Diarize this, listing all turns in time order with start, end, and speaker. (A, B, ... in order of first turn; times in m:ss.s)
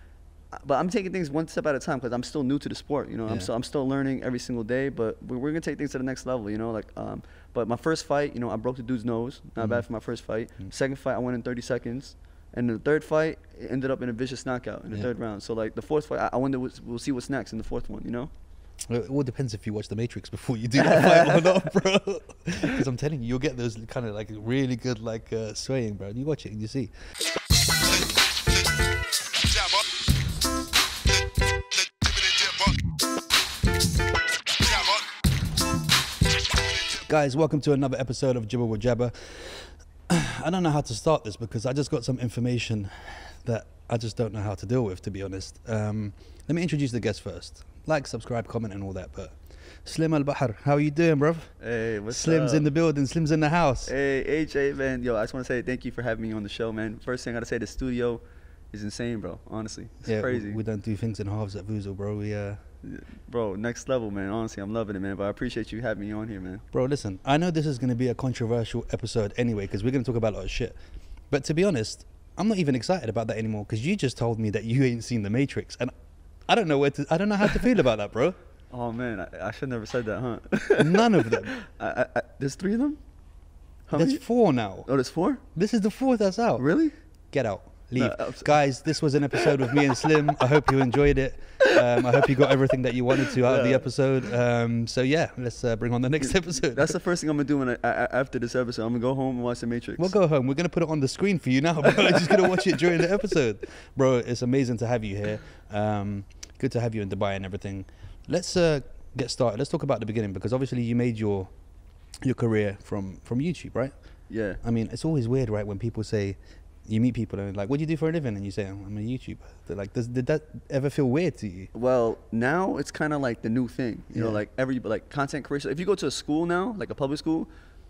0:00.5-0:18.3 A
0:09.6-0:09.8 B
0:18.9-0:26.9 B
0:20.8-0:21.6 A
0:32.2-0:32.8 B
0:36.9-0:51.5 B
0:51.6-0:52.7 A
0:52.1-0:53.9 B
0:53.8-0:58.2 A
0:58.7-1:00.6 A
1:00.0-1:02.6 B
1:02.8-1:06.6 A
1:06.7-1:10.8 B
1:11.3-1:15.9 B
1:16.5-1:18.4 B
1:18.7-1:23.0 A
1:20.8-1:21.5 B
1:23.9-1:24.2 A
1:23.9-1:24.9 B
1:24.8-1:25.4 A
1:25.5-1:26.6 B
1:26.6-1:26.9 A
1:27.3-1:36.9 B
1:28.0-1:28.6 A
1:29.3-1:30.1 A
1:31.6-1:32.5 A
1:33.1-1:33.9 A
1:36.2-1:40.1 A
1:40.0-1:51.5 B
1:42.0-1:42.8 A
1:52.2-1:53.9 B
1:54.3-1:54.6 A
1:54.6-2:01.7 B
2:01.7-2:07.5 A
2:04.1-2:04.4 B